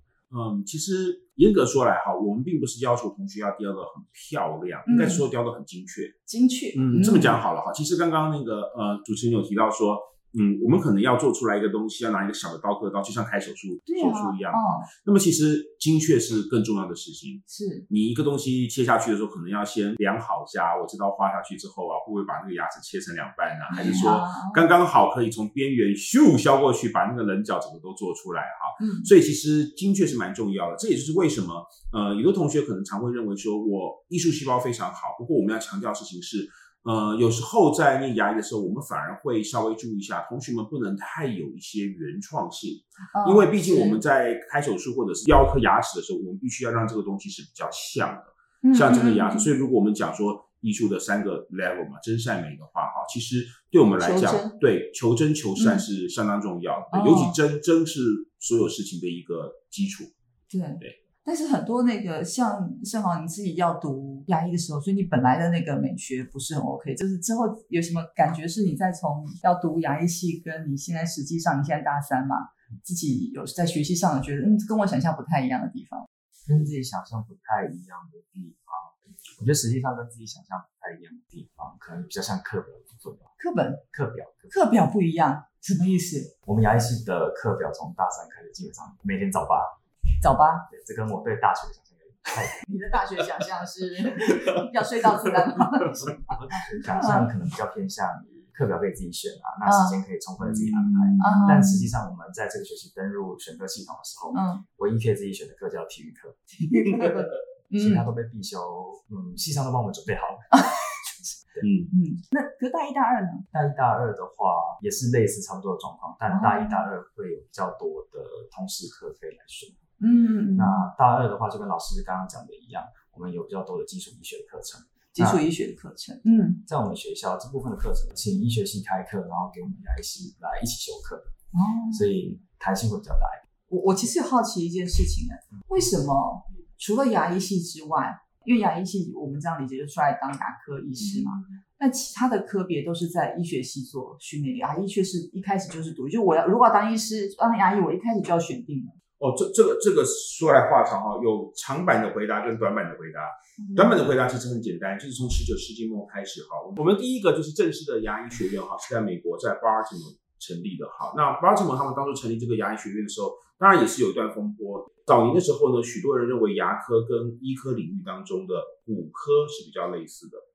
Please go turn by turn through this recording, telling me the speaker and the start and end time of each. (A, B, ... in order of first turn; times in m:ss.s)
0:00.3-0:06.2 A
0:04.8-0:05.2 B
0:06.3-0:07.4 B
0:06.7-1:00.1 A
0:13.9-0:14.9 B
0:17.5-0:17.8 B
0:23.7-0:24.7 B
0:28.8-0:29.1 B
0:43.1-0:44.0 B
0:48.6-0:49.5 B
0:54.0-0:54.5 B
0:55.6-0:55.8 B
0:56.9-0:57.4 B
1:00.5-1:16.1 B
1:16.5-1:23.3 C
1:23.4-1:23.8 B
1:23.9-1:24.6 C
1:24.5-1:26.3 B
1:26.4-1:29.8 C
1:30.2-1:30.7 B
1:30.7-1:32.6 C
1:32.6-1:37.2 B
1:35.8-1:46.4 C
1:39.6-1:40.0 B
1:40.5-1:41.3 A
1:41.2-1:41.9 B
1:44.3-1:44.6 B
1:46.6-1:48.0 B
1:47.8-1:50.5 C
1:50.5-1:51.1 B
1:51.6-1:51.9 A
1:51.9-1:53.4 B
1:53.5-1:59.8 C
1:56.3-1:56.8 B
2:00.0-2:00.9 B
2:00.5-2:05.4 C
2:05.2-2:06.6 B
2:06.6-2:11.3 C
2:11.5-2:12.0 B
2:11.9-2:13.4 C
2:13.7-2:29.0 B
2:21.0-2:21.4 A
2:29.2-2:50.4 A
2:33.6-2:34.1 B